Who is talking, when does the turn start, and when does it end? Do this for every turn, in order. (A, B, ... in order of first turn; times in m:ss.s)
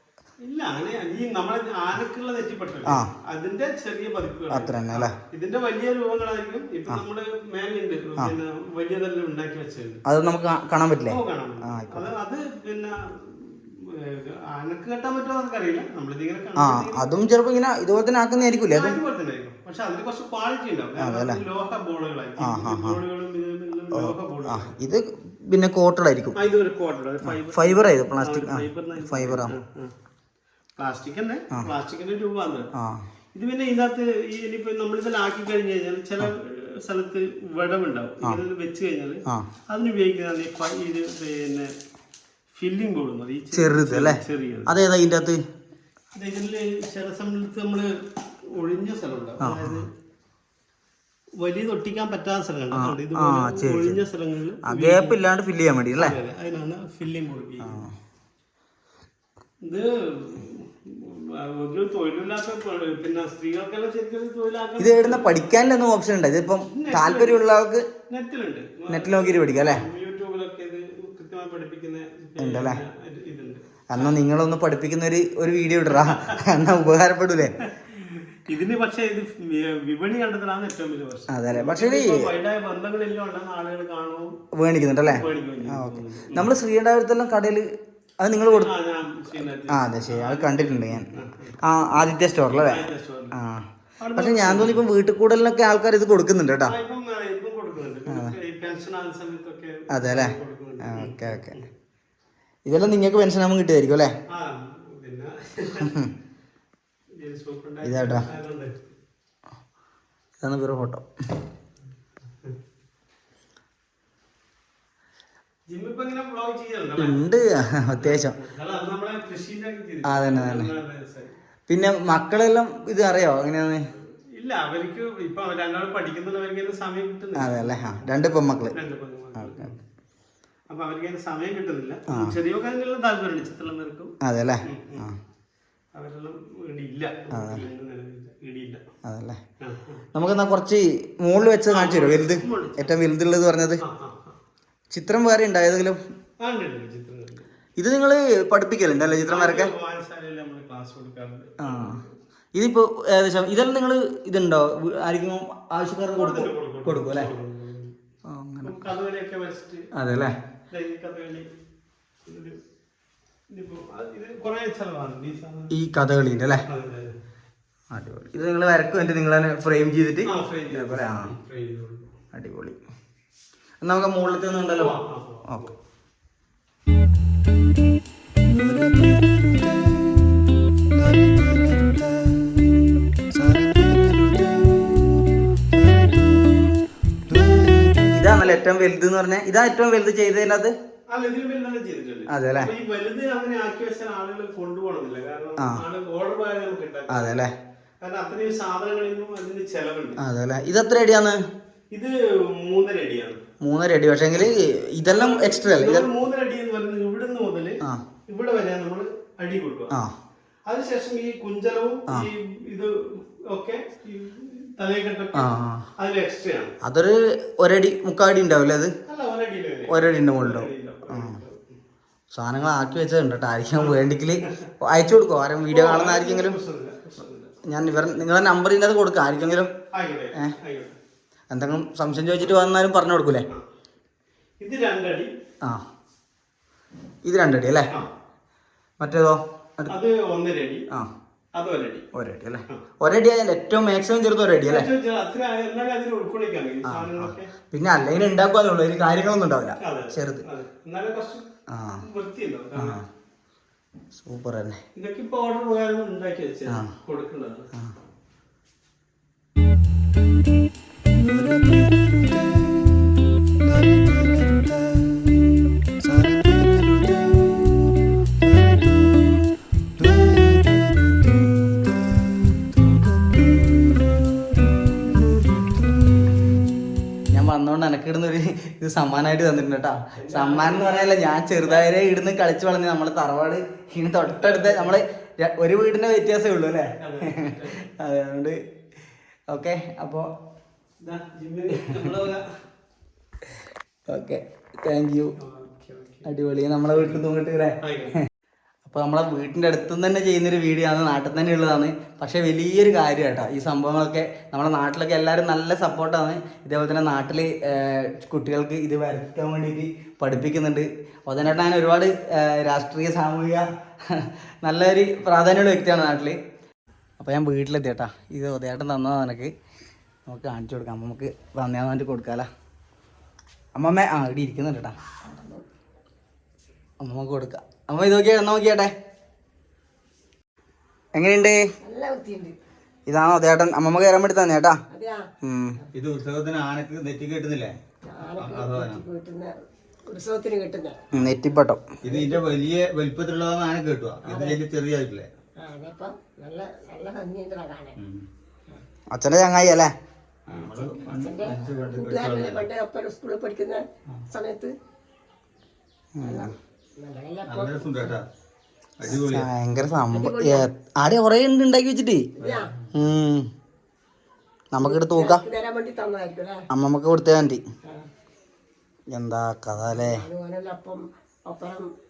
0:00.4-0:10.0 A
0:02.8-0:03.1 B
0:04.5-0:05.2 B
0:10.0-0:12.1 B
0:11.1-0:17.1 A
0:16.6-0:19.0 B
0:18.7-0:24.7 A
0:21.0-0:21.4 B
0:22.4-0:23.0 B
0:23.9-0:26.4 B
0:26.4-0:29.9 A
0:27.2-0:29.5 B
0:30.8-0:32.7 A
0:32.8-0:33.0 B
0:33.3-0:41.7 A
0:42.6-0:44.7 A
0:43.5-0:45.4 B
0:46.1-0:47.9 A
0:48.4-0:49.9 A
0:49.4-0:49.8 B
0:51.4-0:55.2 A
0:52.7-0:54.0 B
0:54.6-0:56.2 B
0:55.9-0:57.8 A
0:57.6-0:57.9 B
0:59.6-1:05.4 A
1:04.8-1:07.8 B
1:06.7-1:07.5 A
1:08.1-1:14.2 A
1:08.9-1:09.8 B
1:12.4-1:12.8 B
1:13.9-1:17.6 B
1:15.9-1:16.5 A
1:17.6-1:24.4 A
1:21.3-1:22.3 B
1:24.5-1:27.7 B
1:25.0-1:26.5 A
1:28.2-1:28.7 B
1:28.3-1:31.6 A
1:29.7-1:31.1 B
1:31.6-1:36.8 B
1:32.4-1:33.4 A
1:34.0-1:34.8 A
1:36.6-1:41.6 A
1:38.1-1:38.4 B
1:39.9-1:41.6 B
1:42.6-1:44.1 B
1:44.3-1:45.9 A
1:45.8-1:46.1 B
1:47.2-1:48.8 A
1:47.8-1:48.3 B
1:50.4-1:51.1 B
1:55.7-1:57.2 A
1:57.0-1:58.4 B
1:58.0-2:01.3 A
2:00.0-2:00.7 B
2:01.7-2:03.8 B
2:04.3-2:07.8 A
2:07.4-2:08.7 B
2:08.7-2:09.8 A
2:09.4-2:09.7 B
2:10.7-2:14.1 A
2:12.1-2:12.4 B
2:14.2-2:15.2 B
2:14.7-2:15.1 A
2:15.9-2:18.8 A
2:17.3-2:17.6 B
2:19.0-2:19.4 B
2:19.6-2:20.0 A
2:20.1-2:23.8 B
2:21.7-2:23.0 A
2:23.8-2:24.3 A
2:24.9-2:26.0 B
2:26.4-2:27.4 A
2:27.8-2:29.7 B
2:29.2-2:32.1 A
2:31.6-2:32.0 B
2:32.5-2:37.3 B
2:36.1-2:37.9 A
2:38.2-2:38.8 B
2:38.6-2:39.9 A
2:39.9-2:40.3 B
2:40.7-2:41.5 A
2:42.2-2:42.6 A
2:43.5-2:45.7 A
2:45.7-2:46.6 B
2:46.7-2:47.1 A
2:47.9-2:51.3 B
2:50.2-2:52.1 A
2:52.3-2:52.8 B
2:53.8-2:55.0 B
2:54.7-2:55.7 A
3:08.0-3:10.8 B
3:11.1-3:17.5 A
3:12.3-3:12.7 B
3:15.6-3:15.8 B
3:17.1-3:17.5 B
3:18.0-3:20.2 A
3:20.2-3:21.4 B
3:21.9-3:23.4 A
3:23.6-3:26.1 B
3:25.0-3:30.0 A
3:30.7-3:36.7 A
3:35.3-3:35.8 B
3:36.8-3:38.9 B
3:39.0-3:41.7 A
3:39.9-3:41.4 B
3:42.3-3:46.6 B
3:43.8-3:44.5 A
3:45.7-3:47.6 A
3:47.6-3:49.7 B
3:49.9-3:51.0 A
3:51.5-3:53.5 B
3:54.6-3:55.3 A
3:57.2-3:57.9 B
3:59.0-3:59.9 B
3:59.9-4:00.8 A
4:01.5-4:02.0 A
4:02.1-4:04.9 B
4:04.7-4:07.5 A
4:06.8-4:10.4 B
4:09.8-4:11.4 A
4:11.7-4:12.0 B
4:12.0-4:13.0 A
4:12.8-4:13.0 B
4:14.2-4:14.8 B
4:14.9-4:17.6 A
4:37.3-4:48.6 B
4:40.2-4:41.9 A
4:44.4-4:45.0 A
4:47.0-4:47.9 A
4:49.5-4:50.3 B
4:51.0-4:52.5 A
4:54.1-4:55.3 B
4:55.4-4:56.3 A
4:56.2-4:57.8 B
4:56.9-4:57.2 A
4:57.8-4:58.2 A
4:58.8-5:16.4 B
5:17.2-5:19.5 B
5:20.3-5:22.5 B
5:23.7-5:25.0 B
5:25.3-5:25.6 C
5:27.0-5:28.9 B
5:31.1-5:31.6 B
5:31.8-5:32.6 C
5:33.1-5:34.8 B
5:34.9-5:35.3 C
5:35.4-5:35.8 B
5:35.9-5:37.7 D
5:38.0-5:39.5 C
5:38.4-5:39.0 D
5:40.0-5:41.0 C
5:41.1-5:42.0 B
5:42.0-5:45.3 D
5:42.0-5:42.4 C
5:44.2-5:44.6 C
5:45.6-5:48.0 C
5:49.1-5:49.9 B
5:50.5-5:52.6 D
5:50.6-5:54.7 C
5:56.2-5:56.5 B
5:56.2-5:58.2 C
5:57.4-5:58.2 D
5:59.0-5:59.5 D
5:59.1-6:02.3 B
6:00.1-6:00.7 C
6:02.4-6:02.7 C
6:02.9-6:03.4 B
6:04.7-6:05.4 B
6:04.8-6:06.6 C
6:06.7-6:07.6 B
6:09.1-6:10.2 B
6:09.9-6:11.9 C